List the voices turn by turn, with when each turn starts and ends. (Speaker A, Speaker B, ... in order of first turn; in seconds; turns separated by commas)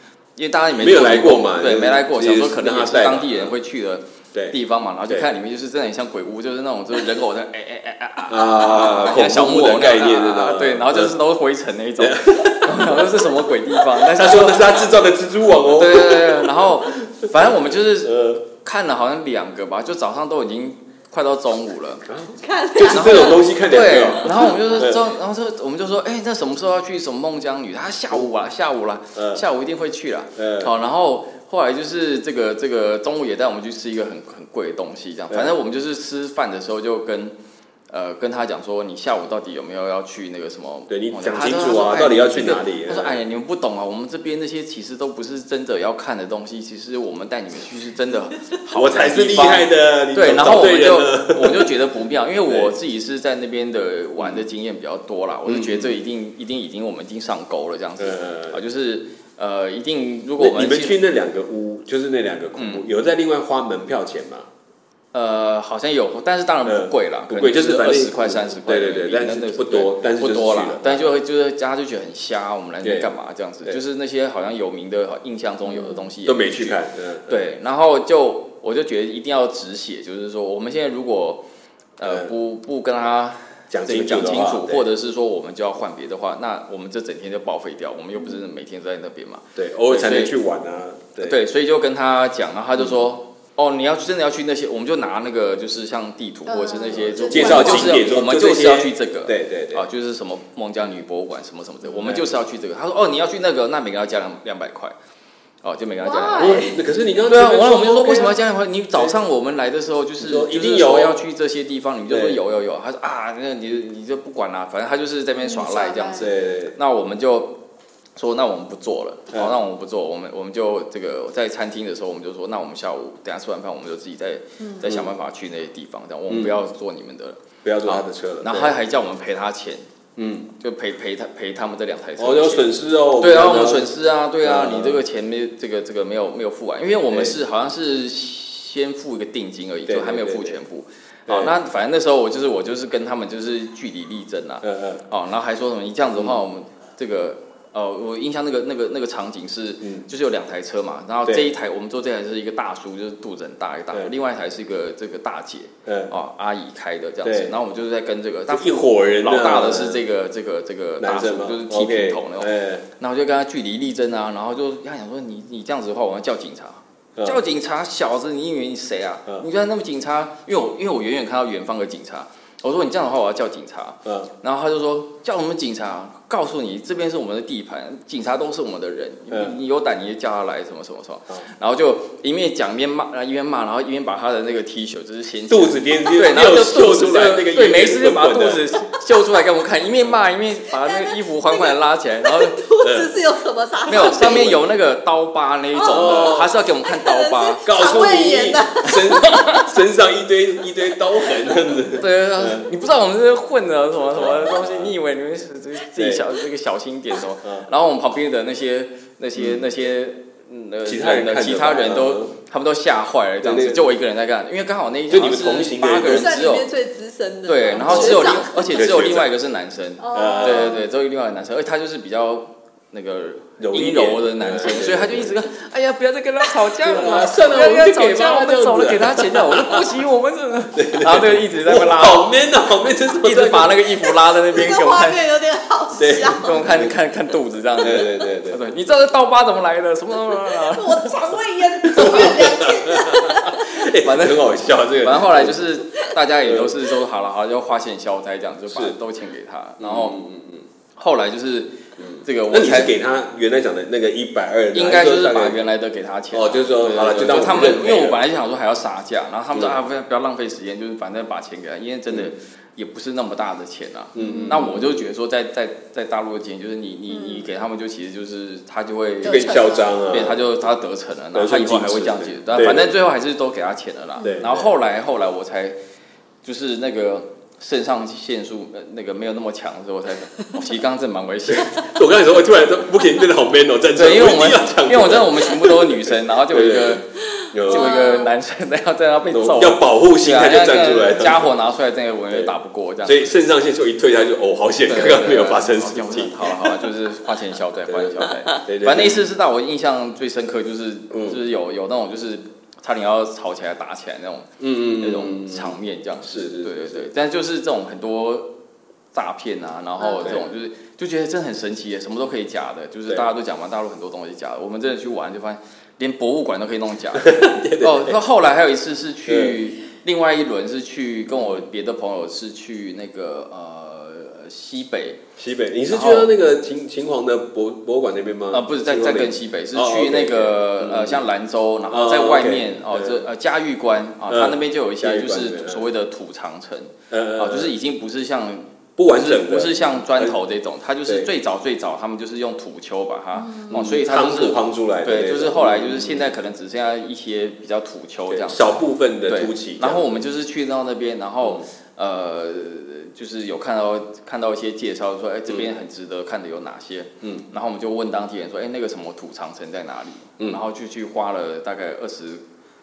Speaker A: 0.3-14.9, Speaker B: 0.7-3.5, Speaker B: 8.3-11.2, Speaker B: 12.0-17.5, Speaker A: 15.7-22.1, Speaker B: 18.0-18.4, Speaker B: 22.1-25.1, Speaker C: 22.3-23.5, Speaker A: 22.9-37.3, Speaker B: 29.1-29.4, Speaker B: 30.4-30.7, Speaker B: 35.3-35.6, Speaker A: 37.9-61.0, Speaker B: 40.9-43.2, Speaker B: 48.7-51.7, Speaker B: 52.5-52.7, Speaker B: 54.2-54.4, Speaker B: 55.5-56.0, Speaker B: 58.0-58.6, Speaker B: 60.4-64.5, Speaker A: 62.6-62.8, Speaker A: 65.1-81.4, Speaker B: 66.6-71.1, Speaker B: 72.8-73.1, Speaker C: 75.7-76.0, Speaker B: 76.2-77.4, Speaker A: 82.0-90.3, Speaker B: 82.0-82.3, Speaker B: 83.7-84.9, Speaker B: 89.5-91.4, Speaker A: 91.2-104.9, Speaker C: 96.5-98.0, Speaker B: 97.3-99.8, Speaker B: 101.8-102.3, Speaker A: 105.6-106.7, Speaker C: 106.0-106.8, Speaker B: 106.4-108.4, Speaker A: 107.3-117.6, Speaker B: 110.2-111.2, Speaker B: 112.1-112.4, Speaker C: 115.4-116.3, Speaker B: 116.2-116.8, Speaker A: 118.2-129.8, Speaker C: 124.6-124.8, Speaker B: 124.8-125.1, Speaker B: 126.3-126.6, Speaker B: 127.6-128.7, Speaker B: 130.2-130.5, Speaker A: 130.6-192.6, Speaker B: 132.2-133.9, Speaker B: 134.4-135.0, Speaker B: 137.1-137.3, Speaker B: 139.9-140.6, Speaker B: 141.3-141.5, Speaker B: 144.6-145.0, Speaker B: 155.8-156.1, Speaker B: 157.2-157.5, Speaker B: 158.5-160.0, Speaker B: 161.0-162.8, Speaker B: 185.5-188.6, Speaker C: 190.8-194.5, Speaker B: 192.8-193.1, Speaker A: 193.9-197.6, Speaker B: 193.9-194.6, Speaker C: 195.8-196.3, Speaker B: 195.9-196.5, Speaker C: 196.8-199.5, Speaker B: 197.6-202.7, Speaker A: 199.2-199.7, Speaker A: 201.9-216.7, Speaker B: 204.1-204.9, Speaker B: 205.9-206.2, Speaker B: 207.4-207.7, Speaker B: 209.3-209.7, Speaker B: 210.8-212.3, Speaker B: 213.4-213.9, Speaker B: 215.1-216.4, Speaker C: 216.0-218.7, Speaker A: 217.4-232.3, Speaker B: 217.8-219.3, Speaker C: 220.0-220.8, Speaker B: 220.1-220.8, Speaker B: 223.6-225.4, Speaker B: 226.8-229.9, Speaker B: 230.7-233.8, Speaker A: 233.2-235.2, Speaker C: 234.5-236.7, Speaker B: 236.0-236.9, Speaker A: 236.3-241.1, Speaker B: 237.8-238.6, Speaker C: 240.5-243.7, Speaker B: 241.8-245.6, Speaker A: 241.9-242.3, Speaker A: 244.0-250.2, Speaker B: 246.4-246.7, Speaker B: 248.7-249.0, Speaker B: 249.8-250.7, Speaker A: 250.9-252.9, Speaker B: 252.0-255.6, Speaker A: 254.7-275.8, Speaker B: 256.3-258.2, Speaker B: 264.1-265.1, Speaker C: 264.2-264.6, Speaker C: 267.1-267.5, Speaker C: 269.2-270.1, Speaker B: 269.2-270.5, Speaker B: 271.3-272.9, Speaker C: 274.2-274.4, Speaker B: 274.2-274.7, Speaker A: 276.4-281.9, Speaker B: 281.5-287.9, Speaker A: 283.9-287.1, Speaker C: 287.6-288.3, Speaker A: 287.6-293.3, Speaker B: 289.3-291.5, Speaker B: 293.0-296.9, Speaker A: 294.9-308.5, Speaker B: 297.9-299.3, Speaker B: 301.1-301.4, Speaker B: 304.6-307.1, Speaker A: 309.1-325.2, Speaker C: 310.0-310.4, Speaker B: 317.1-318.2, Speaker B: 319.2-319.6, Speaker B: 325.4-331.2, Speaker A: 325.9-326.3, Speaker A: 328.5-348.7, Speaker B: 331.9-333.2, Speaker B: 334.3-335.9, Speaker B: 337.1-337.7, Speaker B: 339.0-340.4, Speaker C: 343.4-343.8, Speaker B: 343.7-346.3, Speaker B: 348.3-350.0, Speaker A: 349.3-362.4